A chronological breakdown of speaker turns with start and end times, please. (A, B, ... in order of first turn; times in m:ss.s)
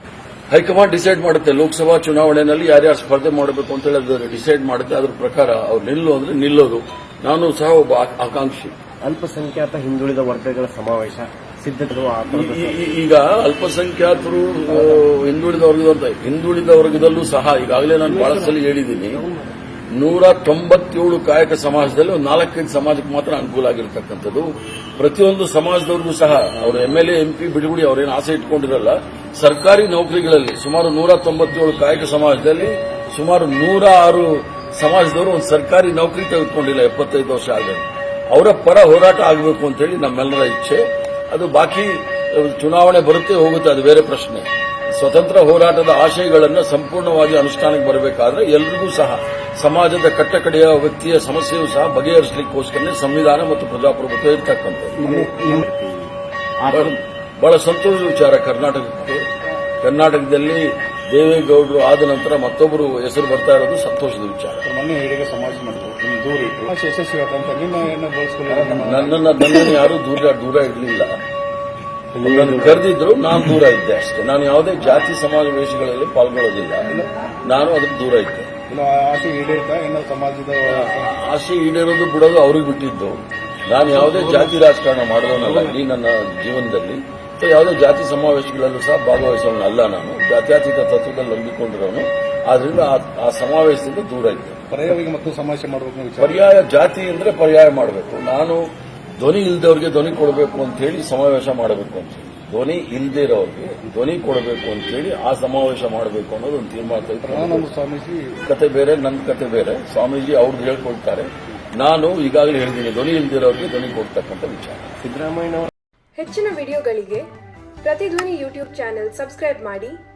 0:00.5-0:08.8 A
0:09.0-0:12.9 B
0:12.3-0:19.2 A
0:14.7-0:15.0 B
0:18.0-0:19.5 B
0:19.9-0:55.0 A
0:55.0-0:55.6 C
0:55.0-0:56.9 B
0:56.7-0:59.2 A
0:59.8-1:04.6 A
1:04.6-1:09.3 C
1:08.5-1:11.1 A
1:12.1-1:12.8 B
1:12.2-1:16.9 A
1:17.4-1:18.5 A
1:18.7-1:21.1 C
1:20.7-1:34.6 A
1:23.9-1:24.5 C
1:25.4-1:25.8 C
1:34.7-1:36.4 C
1:36.2-1:38.6 A
1:39.2-1:47.7 A
1:47.2-1:48.4 C
1:48.4-1:54.9 A
1:55.0-1:55.7 B
1:56.2-1:57.3 D
1:57.8-2:00.0 D